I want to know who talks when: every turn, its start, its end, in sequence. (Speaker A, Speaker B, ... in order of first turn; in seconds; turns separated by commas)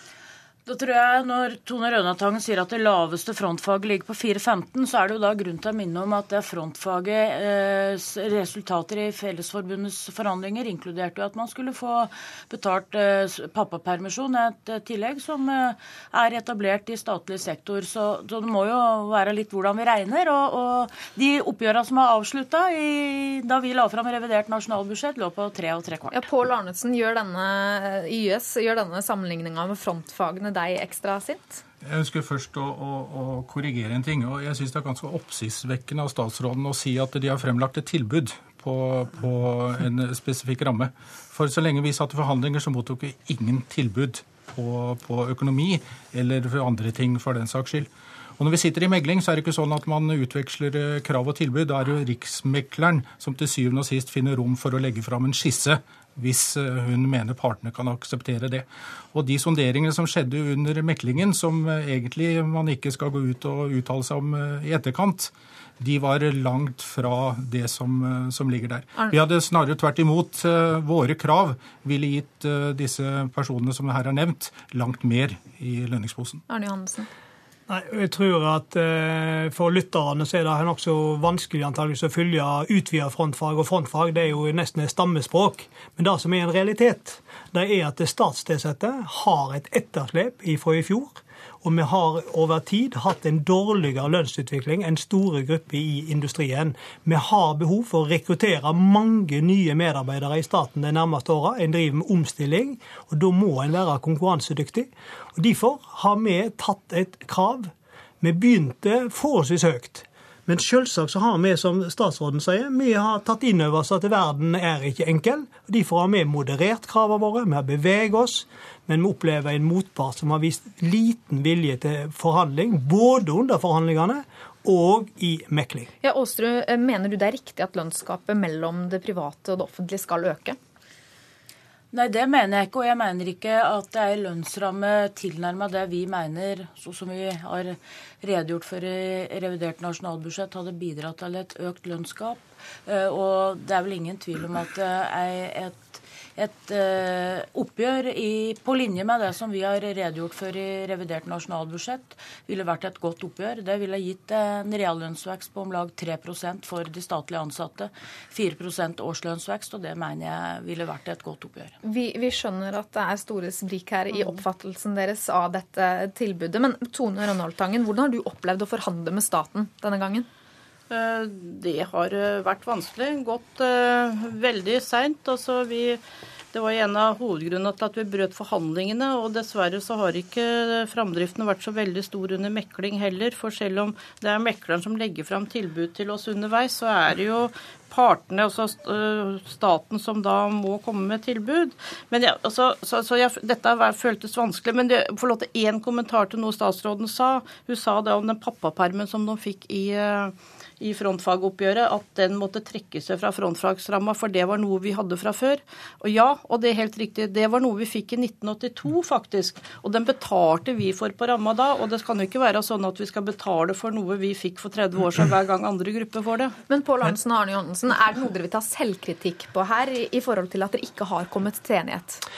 Speaker A: 0.7-26.2, Speaker B: 26.1-31.6, Speaker C: 31.9-76.4, Speaker B: 76.5-77.1, Speaker D: 77.7-125.9, Speaker B: 126.0-130.6, Speaker A: 131.9-161.7, Speaker B: 161.8-170.3, Speaker E: 170.9-176.0, Speaker E: 176.5-216.5, Speaker B: 216.7-222.2